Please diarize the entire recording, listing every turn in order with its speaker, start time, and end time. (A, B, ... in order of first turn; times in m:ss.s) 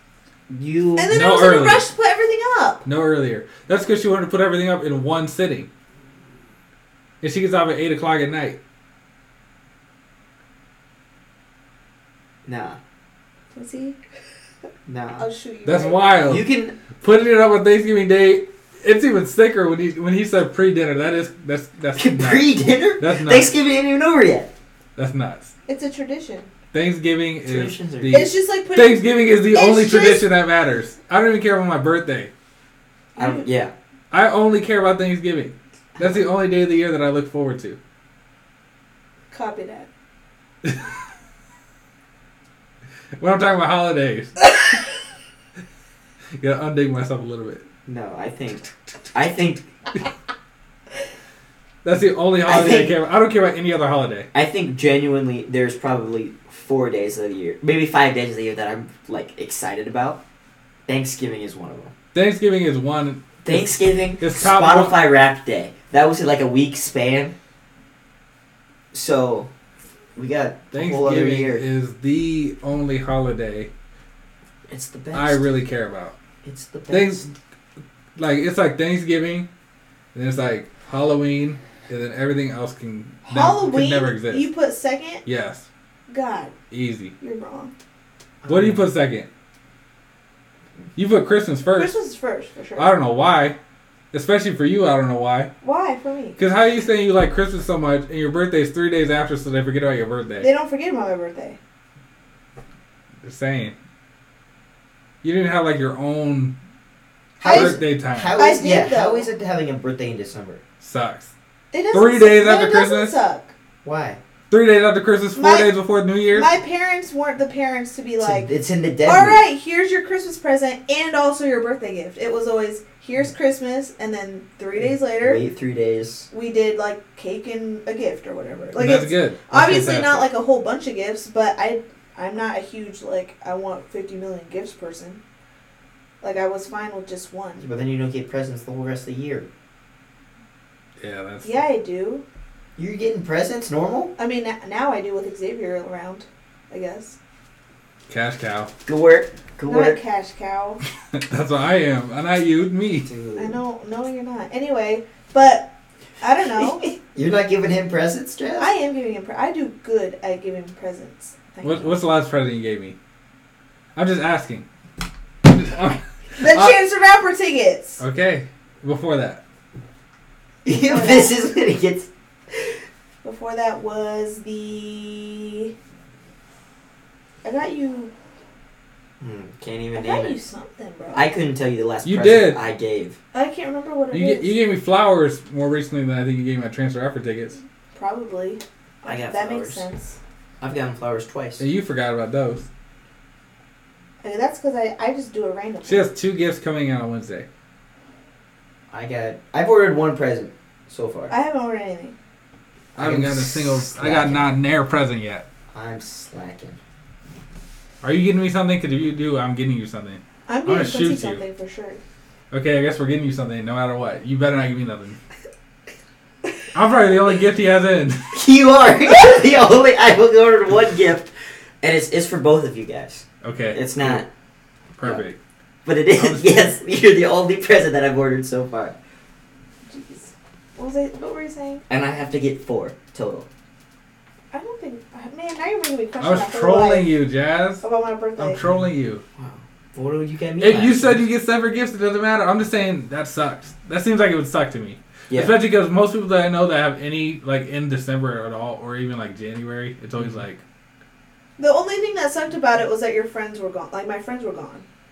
0:00.5-0:01.2 A
0:01.0-0:02.8 B
0:01.1-0:01.9 C
0:02.8-0:05.7 C
0:07.2-0:08.6 C
0:12.5-0:12.8 A
0:13.5-0:14.0 B
0:14.9-0:15.2 A
0:15.2-0:16.0 B
0:15.6-0:16.5 C
0:16.3-0:16.8 A
0:17.0-0:23.5 C
0:22.0-0:24.5 A
0:25.0-0:25.5 C
0:25.7-0:26.5 B
0:26.7-0:32.3 C
0:27.4-0:28.3 A
0:28.1-0:30.3 B
0:33.2-0:33.4 B
0:33.2-0:33.7 A
0:34.1-0:37.8 C
0:39.3-0:39.9 B
0:43.2-0:44.4 C
0:46.4-0:47.6 C
0:47.9-0:49.7 A
0:51.8-0:54.3 C
0:52.4-0:53.0 A
0:54.3-1:00.2 A
1:00.9-1:01.9 A
1:02.1-1:05.0 C
1:03.4-1:07.3 A
1:08.9-1:09.5 A
1:10.2-1:11.6 A
1:10.7-1:13.7 C
1:14.7-1:15.5 A
1:15.1-1:16.2 C
1:16.4-1:17.3 A
1:16.9-1:17.3 C
1:18.2-1:19.5 C
1:20.1-1:24.5 C
1:23.3-1:25.2 B
1:25.2-1:25.7 C
1:26.1-1:26.5 B
1:26.7-1:27.1 C
1:27.2-1:27.7 B
1:28.4-1:28.8 A
1:28.5-1:29.3 C
1:31.0-1:31.9 C
1:31.7-1:32.9 B
1:32.8-1:33.6 C
1:34.1-1:35.5 C
1:35.6-1:36.4 B
1:36.4-1:40.5 C
1:40.4-1:41.6 B
1:43.2-1:43.8 C
1:45.2-1:46.6 C
1:47.4-1:50.6 A
1:47.4-1:49.3 B
1:47.5-1:48.4 C
1:50.8-1:51.3 C
1:51.7-1:53.5 B
1:51.9-1:53.2 C
1:53.8-1:54.2 A
1:54.5-1:56.5 C
1:55.4-1:55.7 B
1:56.3-1:58.5 B
1:58.2-1:59.4 A
1:59.0-2:05.4 B
2:04.8-2:06.3 A
2:06.3-2:15.2 B
2:08.8-2:10.3 C
2:16.2-2:17.6 B
2:17.6-2:19.5 A
2:21.0-2:21.6 C
2:21.4-2:22.2 B
2:22.8-2:24.1 A
2:24.2-2:27.2 B
2:28.1-2:28.7 C
2:28.8-2:30.0 A
2:29.7-2:30.8 B
2:31.1-2:33.1 C
2:33.0-2:33.6 A
2:33.4-2:36.9 B
2:36.6-2:38.7 A
2:38.6-2:42.0 B
2:41.6-2:43.0 C
2:44.0-2:44.7 C
2:45.4-2:46.8 C
2:46.4-2:48.0 B
2:48.0-2:49.4 C
2:50.6-2:52.8 A
2:50.7-2:51.4 B
2:53.2-2:55.7 B
2:57.4-2:58.1 B
2:59.2-3:00.4 A
3:00.0-3:01.3 B
3:01.1-3:03.2 A
3:02.0-3:02.6 C
3:03.3-3:04.5 B
3:04.1-3:07.6 C
3:07.9-3:10.2 B
3:09.0-3:09.9 A
3:10.6-3:11.6 A
3:11.6-3:12.7 C
3:14.2-3:16.1 B
3:15.8-3:17.5 C
3:18.9-3:21.3 A
3:21.3-3:22.2 B
3:23.0-3:25.5 C
3:23.0-3:24.5 A
3:25.7-3:26.8 A
3:28.0-3:31.4 C
3:30.5-3:32.0 B
3:32.5-3:35.2 C
3:36.7-3:38.3 C
3:38.3-3:41.3 A
3:41.8-3:44.3 A
3:43.4-3:44.2 C
3:45.0-3:45.4 C
3:45.8-3:49.0 A
3:46.2-3:46.7 C
3:49.9-3:51.8 B
3:51.9-3:53.5 A
3:54.5-3:57.1 B
3:56.2-3:57.8 C
3:57.8-3:58.6 B
3:58.4-3:59.2 C
3:59.4-4:01.2 A
4:00.6-4:10.6 C
4:11.6-4:14.8 B